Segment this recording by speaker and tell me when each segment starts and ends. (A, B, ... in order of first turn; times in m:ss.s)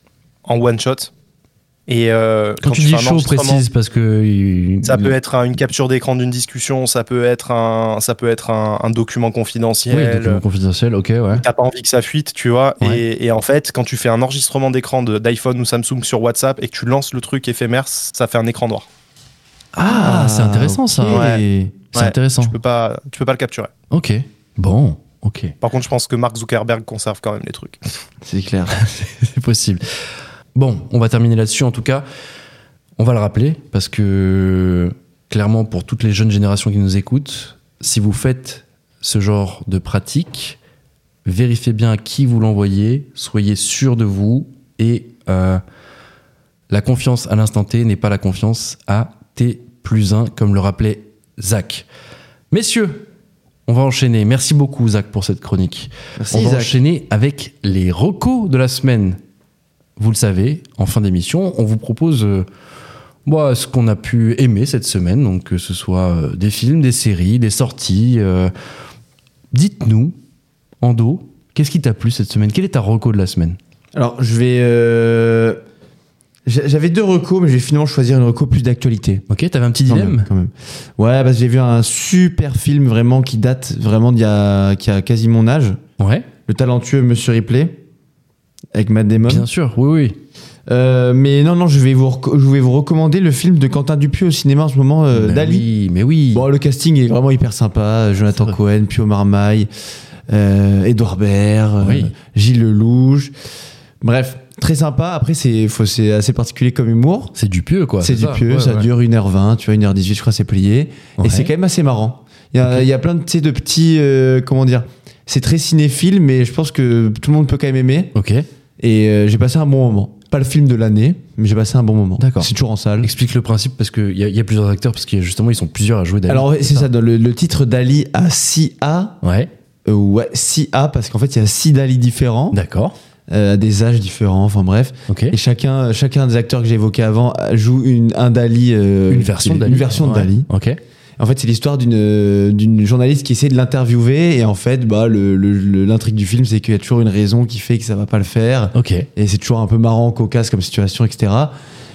0:00.4-0:01.1 A
0:01.9-0:03.6 A
0:02.6-0:05.1 B
0:04.8-0:10.4 A
0:09.9-0:11.4 B
0:11.3-0:18.9 A
0:19.8-0:21.2 B
0:19.8-0:21.8 C
0:21.1-0:21.4 A
0:21.9-0:22.5 B
0:21.9-0:23.7 A
0:23.9-0:25.5 B
0:25.6-0:27.8 A
0:28.2-0:28.8 C
0:28.7-0:29.8 B
0:30.5-0:32.0 B
0:33.0-0:40.6 B
0:41.2-0:45.6 B
0:46.7-0:51.8 B
0:52.5-0:53.1 B
0:53.7-0:59.2 B
0:56.2-0:56.8 C
1:00.0-1:02.5 B
1:03.2-1:08.5 B
1:09.5-1:10.2 B
1:10.8-1:13.6 B
1:13.9-1:15.6 C
1:16.4-1:19.2 C
1:19.3-1:20.3 B
1:19.8-1:25.8 C
1:26.0-1:26.3 B
1:26.5-1:27.8 C
1:28.7-1:29.5 C
1:29.3-1:30.2 B
1:30.7-1:35.7 C
1:35.1-1:36.4 B
1:36.3-1:39.7 C
1:40.3-1:43.3 C
1:41.8-1:42.1 B
1:44.0-1:47.3 C
1:47.4-1:48.9 B
1:48.0-1:58.1 C
1:51.2-1:51.5 B
1:58.1-1:58.4 B
1:58.8-2:03.1 C
2:02.2-2:02.5 B
2:03.0-2:06.9 B
2:06.3-2:09.2 C
2:09.2-2:09.5 B
2:09.8-2:12.6 C
2:12.5-2:13.0 B
2:13.3-2:20.5 C
2:15.1-2:15.4 B
2:19.1-2:20.8 B
2:21.2-2:31.5 C
2:28.7-2:29.1 B